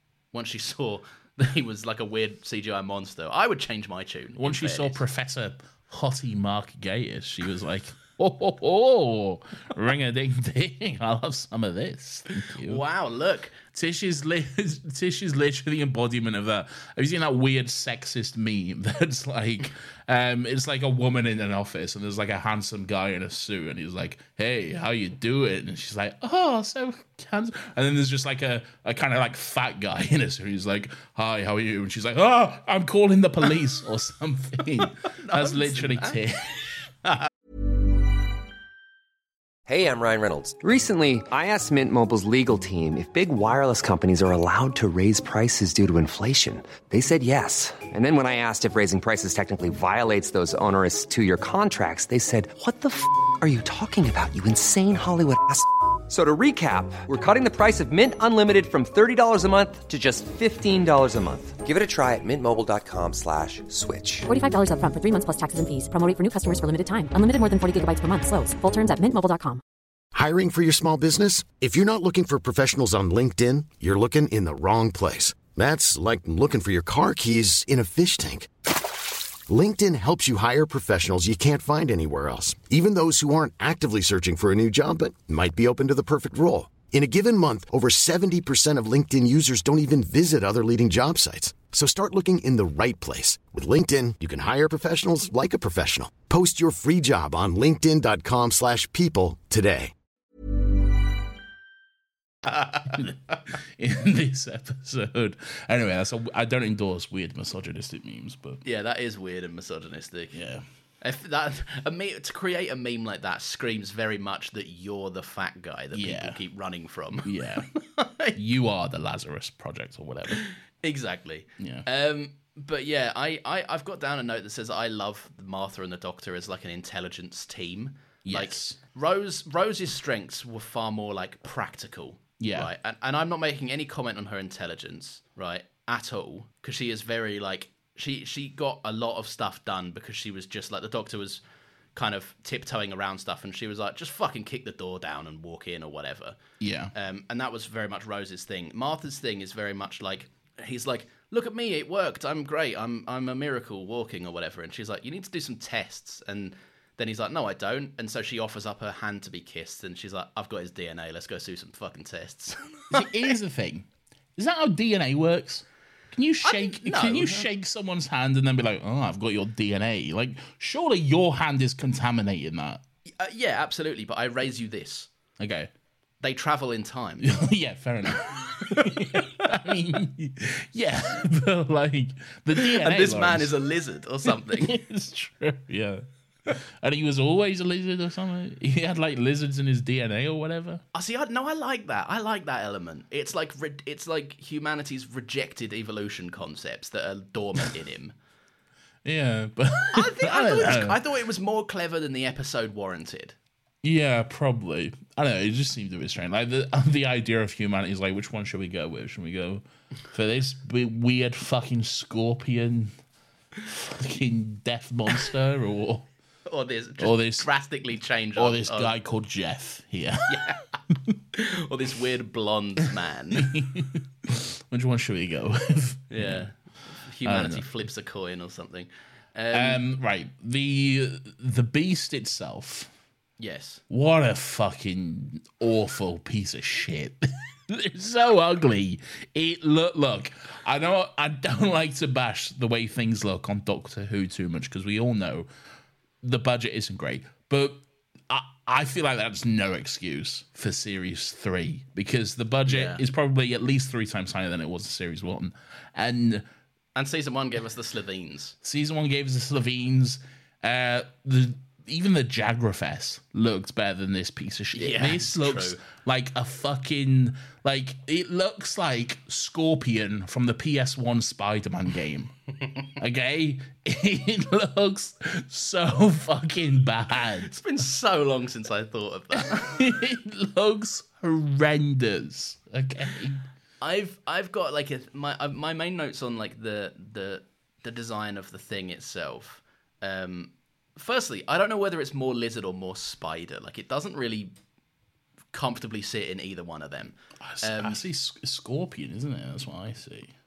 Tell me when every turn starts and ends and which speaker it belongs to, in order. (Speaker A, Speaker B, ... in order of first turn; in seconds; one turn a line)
Speaker A: 0.3-5.0
Speaker B: 4.4-12.8
Speaker A: 12.7-13.6
Speaker B: 13.7-36.9
Speaker A: 34.8-36.2
Speaker C: 39.7-64.3
Speaker D: 64.3-69.6
Speaker E: 70.1-78.5
Speaker E: 79.5-99.9
Speaker B: 102.9-108.6
Speaker A: 108.6-110.4
Speaker B: 110.3-110.6
Speaker A: 111.0-118.4
Speaker B: 115.9-116.4
Speaker B: 117.2-117.7
Speaker B: 118.4-120.4
Speaker A: 120.4-141.4
Speaker B: 121.6-121.9
Speaker B: 128.3-128.8
Speaker B: 132.4-132.7
Speaker A: 141.9-146.4
Speaker B: 146.6-146.9
Speaker A: 146.9-163.3
Speaker B: 162.9-172.8
Speaker A: 166.4-167.5
Speaker A: 173.2-175.1
Speaker B: 175.4-175.7
Speaker A: 176.2-177.3
Speaker B: 177.2-183.5
Speaker A: 178.4-179.2
Speaker A: 182.6-184.8
Speaker B: 184.3-190.8
Speaker A: 190.9-198.1
Speaker B: 199.1-201.0
Speaker A: 199.9-203.3
Speaker B: 203.8-212.9
Speaker B: 213.7-216.1
Speaker A: 216.5-218.9
Speaker B: 217.0-217.5
Speaker B: 218.4-220.6
Speaker A: 220.3-220.6
Speaker A: 221.3-223.5
Speaker B: 223.4-226.5
Speaker A: 226.1-229.8
Speaker B: 227.2-227.6
Speaker B: 229.5-232.9
Speaker A: 233.4-233.8
Speaker B: 233.9-245.5
Speaker B: 246.2-256.4
Speaker A: 252.7-253.0
Speaker A: 256.9-258.6
Speaker B: 258.6-272.3
Speaker A: 264.7-265.8
Speaker B: 273.0-277.5
Speaker A: 277.4-279.9
Speaker B: 279.4-283.4
Speaker A: 283.8-294.5
Speaker A: 295.5-298.0
Speaker B: 297.4-300.3